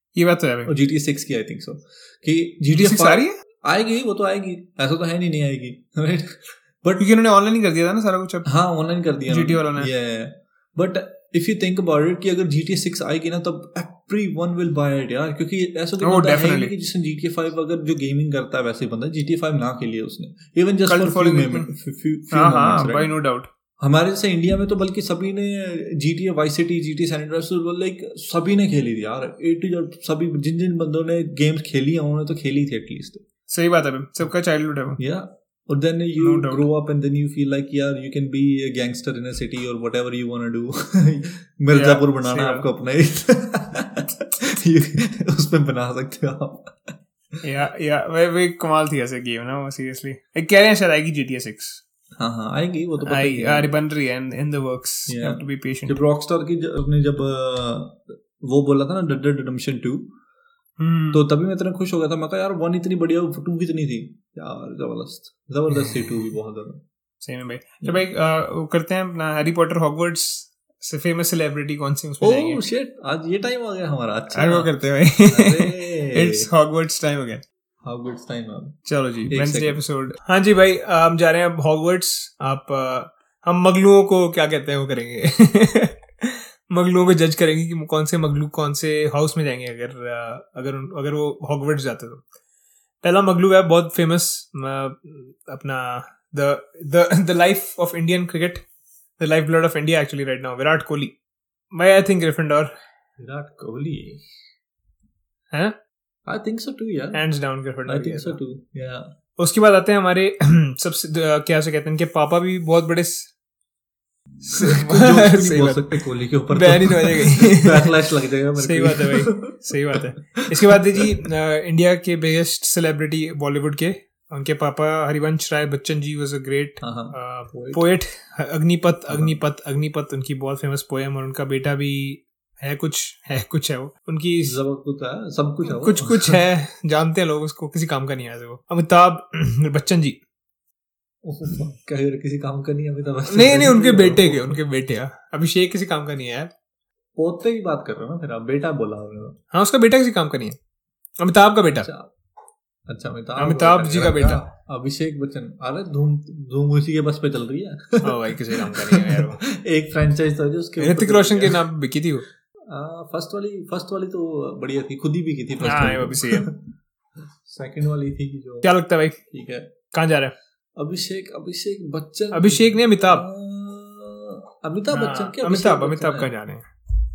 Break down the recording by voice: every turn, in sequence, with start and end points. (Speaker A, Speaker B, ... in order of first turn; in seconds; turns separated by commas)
Speaker A: 0.1-0.7, Speaker B: 0.7-7.1, Speaker A: 2.7-3.4, Speaker A: 7.0-8.5, Speaker B: 8.5-23.1, Speaker A: 9.3-9.9, Speaker A: 16.0-16.7, Speaker A: 20.9-21.7, Speaker A: 22.3-23.5, Speaker B: 23.8-33.2, Speaker A: 33.5-35.0, Speaker B: 35.0-47.0, Speaker A: 36.2-36.7, Speaker A: 41.7-42.7, Speaker A: 47.4-51.8, Speaker B: 52.2-53.7, Speaker A: 53.0-56.0, Speaker B: 55.1-60.1, Speaker A: 60.8-61.2, Speaker B: 61.1-66.8, Speaker A: 67.2-72.6, Speaker B: 72.2-74.7, Speaker A: 74.3-77.4, Speaker B: 75.3-76.5, Speaker B: 77.8-79.8, Speaker A: 78.9-92.2, Speaker A: 93.0-98.7, Speaker A: 99.2-101.2, Speaker A: 101.7-102.7, Speaker B: 103.2-104.3, Speaker B: 106.3-107.2, Speaker A: 107.1-108.4, Speaker B: 107.9-109.1, Speaker A: 109.4-113.3, Speaker A: 114.5-118.0, Speaker B: 114.6-121.1, Speaker A: 118.6-134.6, Speaker B: 126.8-127.9, Speaker B: 129.1-129.4, Speaker B: 134.4-136.4, Speaker A: 135.7-140.2, Speaker B: 141.2-144.6, Speaker A: 143.3-146.5, Speaker B: 147.2-149.4, Speaker A: 149.5-150.6, Speaker A: 151.2-151.9, Speaker B: 151.8-152.1, Speaker B: 152.9-161.6, Speaker A: 153.4-154.4, Speaker A: 158.0-159.4, Speaker A: 160.8-162.2, Speaker B: 162.7-166.6, Speaker A: 165.6-166.5, Speaker B: 167.4-168.7, Speaker A: 168.6-169.2, Speaker B: 169.3-169.7, Speaker A: 169.9-170.3, Speaker B: 170.8-176.3, Speaker A: 172.3-173.2, Speaker A: 174.9-176.7